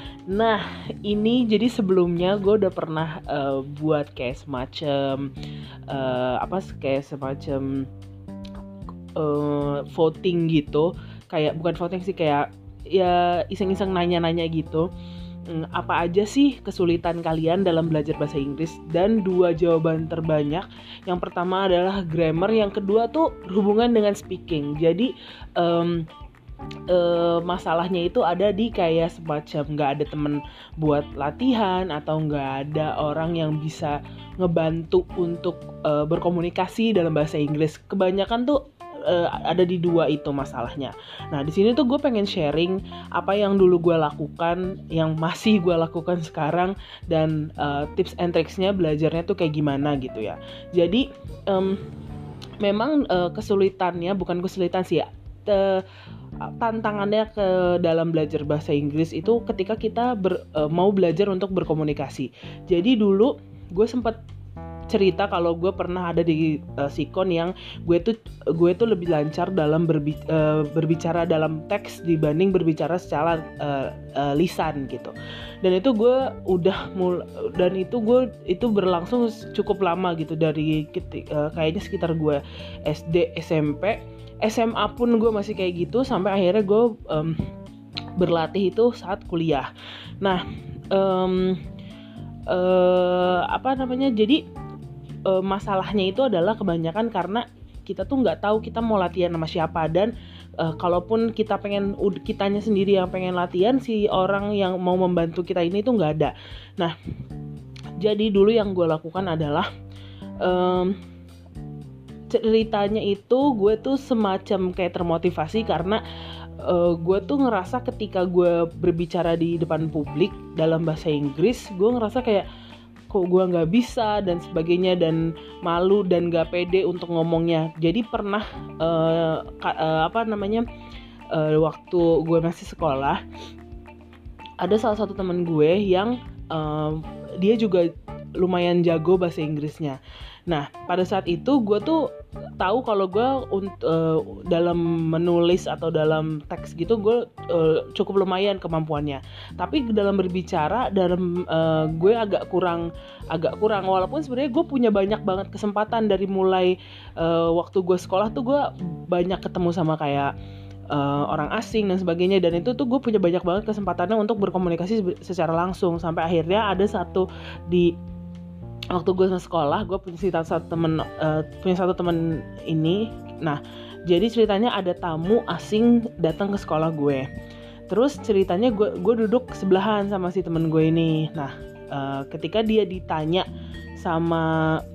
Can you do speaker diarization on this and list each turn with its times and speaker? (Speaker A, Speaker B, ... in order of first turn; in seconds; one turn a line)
Speaker A: 0.3-5.3
Speaker A: 5.9-7.9
Speaker A: 9.2-14.9
Speaker A: 15.5-26.1
Speaker A: 26.9-51.8
Speaker A: 52.6-55.8
Speaker A: 56.4-64.2
Speaker A: 64.9-87.4
Speaker A: 88.2-89.7
Speaker A: 90.2-91.6
Speaker A: 92.5-94.4
Speaker A: 95.3-107.0
Speaker A: 108.0-109.7
Speaker A: 110.4-111.0
Speaker A: 112.3-116.0
Speaker A: 116.6-122.5
Speaker A: 123.1-130.7
Speaker A: 131.3-133.2
Speaker A: 134.6-142.1
Speaker A: 142.6-160.3
Speaker A: 160.9-167.9
Speaker A: 168.9-177.3
Speaker A: 177.9-183.5
Speaker A: 184.0-184.8